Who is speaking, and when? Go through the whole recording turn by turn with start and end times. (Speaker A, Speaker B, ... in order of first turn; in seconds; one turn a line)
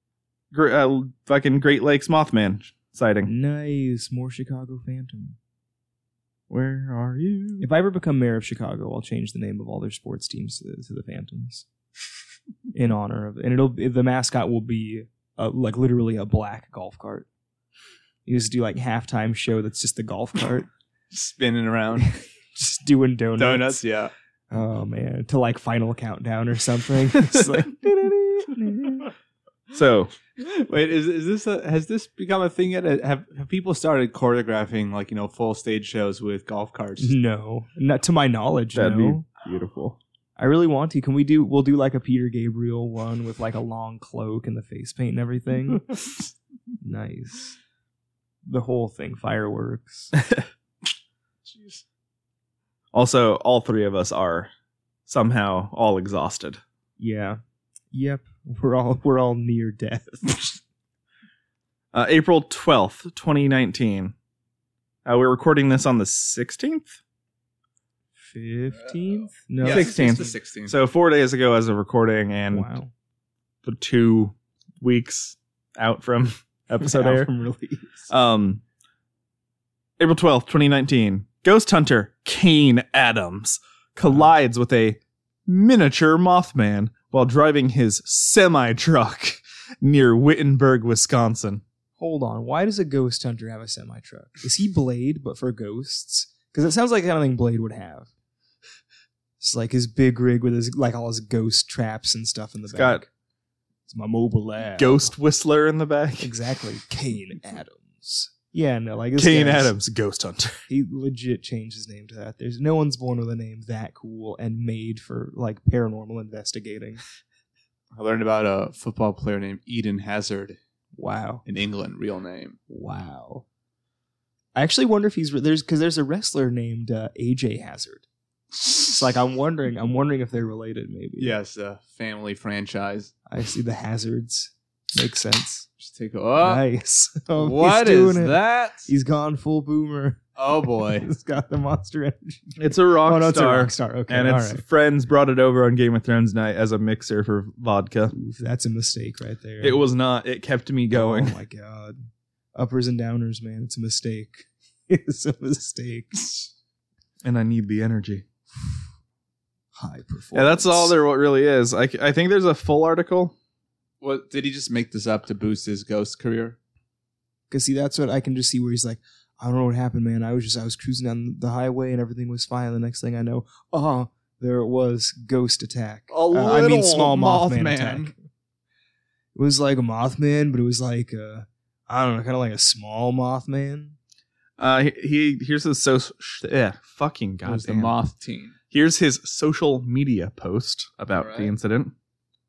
Speaker A: 0.5-3.3
Speaker B: 3.2-5.4
Speaker A: 6.5-7.7
Speaker B: 7.6-11.6
Speaker B: 12.7-17.3
Speaker B: 18.2-20.6
Speaker C: 21.1-22.1
Speaker B: 22.0-23.8
Speaker C: 23.4-24.1
Speaker B: 24.5-29.1
Speaker A: 29.7-30.1
Speaker C: 30.4-37.1
Speaker B: 37.0-39.2
Speaker A: 38.7-40.0
Speaker B: 40.4-45.9
Speaker B: 46.8-47.5
Speaker B: 48.4-50.1
Speaker A: 50.2-50.4
Speaker C: 51.5-51.8
Speaker A: 52.9-54.5
Speaker A: 55.1-56.6
Speaker B: 57.0-57.4
Speaker B: 57.9-60.6
Speaker A: 61.9-64.1
Speaker A: 65.0-66.9
Speaker B: 68.2-70.0
Speaker C: 69.6-70.8
Speaker A: 69.6-72.7
Speaker B: 72.5-72.9
Speaker A: 73.6-77.3
Speaker B: 76.8-78.1
Speaker A: 78.1-78.6
Speaker A: 80.0-91.6
Speaker B: 92.0-98.1
Speaker B: 99.4-103.1
Speaker A: 102.7-103.0
Speaker B: 103.9-105.1
Speaker A: 104.8-106.3
Speaker B: 106.2-109.7
Speaker A: 109.2-110.6
Speaker B: 110.7-117.0
Speaker C: 117.9-120.6
Speaker B: 121.0-121.4
Speaker C: 121.5-122.6
Speaker B: 122.7-123.4
Speaker B: 124.5-128.1
Speaker B: 128.8-131.3
Speaker C: 131.2-133.1
Speaker B: 133.3-135.7
Speaker C: 135.8-136.6
Speaker B: 136.4-140.2
Speaker C: 137.4-138.9
Speaker C: 140.3-141.1
Speaker B: 140.8-144.6
Speaker A: 142.6-148.1
Speaker B: 148.1-149.8
Speaker A: 149.6-151.3
Speaker B: 150.9-152.0
Speaker B: 152.5-156.4
Speaker A: 157.2-158.2
Speaker B: 159.8-160.9
Speaker A: 160.3-163.3
Speaker C: 164.0-166.6
Speaker B: 167.5-178.1
Speaker C: 176.1-178.1
Speaker B: 179.3-183.9
Speaker A: 184.6-187.9
Speaker C: 187.4-188.6
Speaker A: 188.7-191.9
Speaker C: 191.1-191.5